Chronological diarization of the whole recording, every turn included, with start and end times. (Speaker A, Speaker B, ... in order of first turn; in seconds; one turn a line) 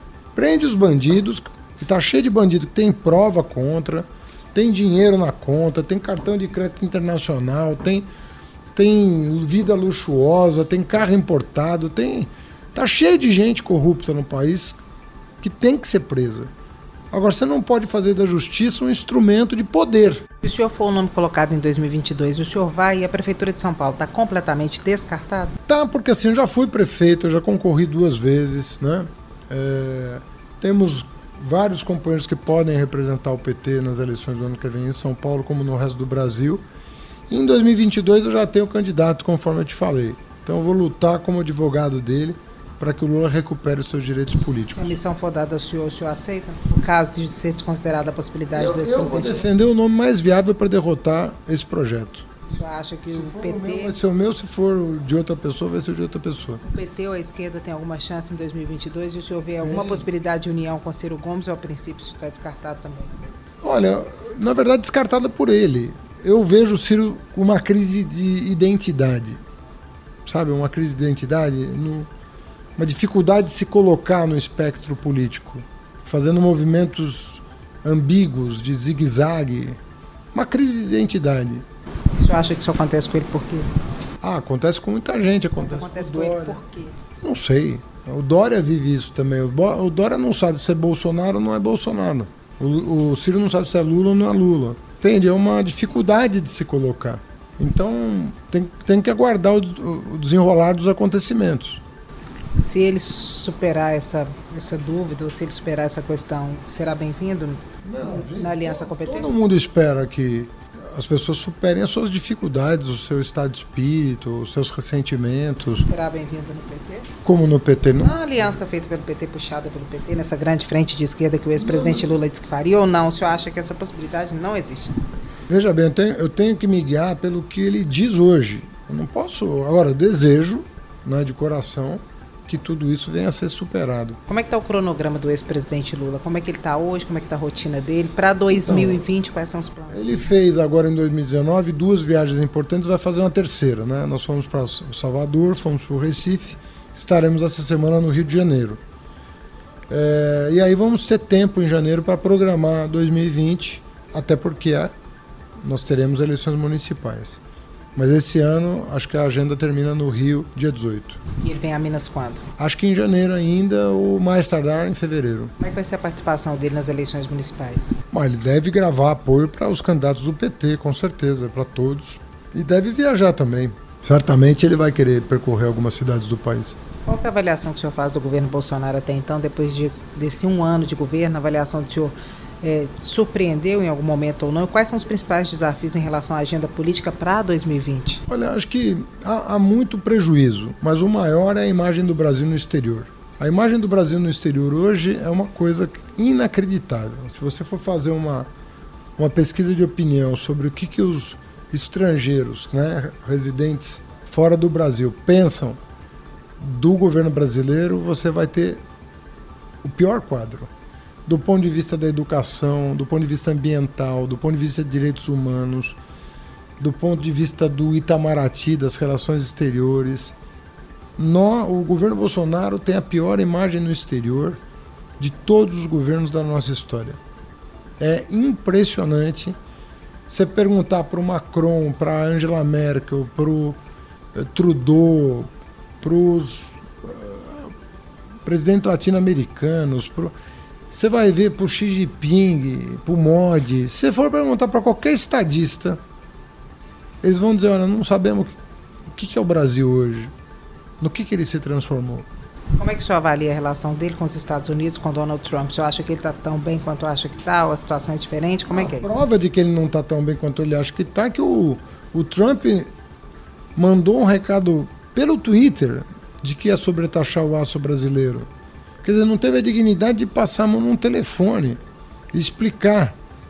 Speaker A: 0.3-8.1
Speaker A: 8.7-14.8
Speaker A: 15.4-16.5
Speaker A: 17.1-20.2
Speaker B: 20.4-25.6
Speaker A: 25.7-36.6
Speaker A: 37.3-45.0
Speaker B: 44.7-49.5
Speaker A: 48.5-52.2
Speaker B: 52.5-54.0
Speaker A: 53.1-56.6
Speaker B: 56.6-63.1
Speaker A: 59.6-60.1
Speaker A: 63.6-69.4
Speaker A: 70.2-72.1
Speaker A: 72.8-79.8
Speaker A: 80.3-81.7
Speaker B: 82.2-83.7
Speaker A: 84.2-86.6
Speaker B: 85.6-87.0
Speaker A: 87.2-101.8
Speaker B: 102.5-109.3
Speaker A: 107.8-115.8
Speaker B: 115.8-117.1
Speaker A: 117.2-118.3
Speaker B: 118.0-125.0
Speaker A: 121.6-122.2
Speaker A: 125.5-134.2
Speaker B: 134.3-140.3
Speaker A: 138.5-139.0
Speaker A: 139.9-148.8
Speaker A: 149.9-154.9
Speaker A: 155.6-157.4
Speaker A: 157.9-161.2
Speaker B: 161.4-162.4
Speaker A: 162.6-165.5
Speaker B: 165.6-168.0
Speaker A: 168.1-176.8
Speaker B: 177.1-188.2
Speaker A: 188.3-198.5
Speaker A: 199.2-205.8
Speaker A: 206.6-208.8
Speaker A: 209.8-210.7
Speaker A: 211.3-216.0
Speaker A: 216.8-220.4
Speaker A: 221.2-224.6
Speaker A: 225.2-227.2
Speaker A: 228.0-229.6
Speaker A: 230.3-233.8
Speaker A: 234.3-235.5
Speaker A: 236.0-237.7
Speaker A: 238.4-240.3
Speaker A: 240.9-246.0
Speaker A: 247.2-248.5
Speaker A: 249.1-250.3
Speaker A: 251.0-252.3
Speaker B: 252.8-259.2
Speaker A: 258.7-262.9
Speaker A: 263.8-268.5
Speaker A: 269.0-271.8
Speaker A: 272.3-273.2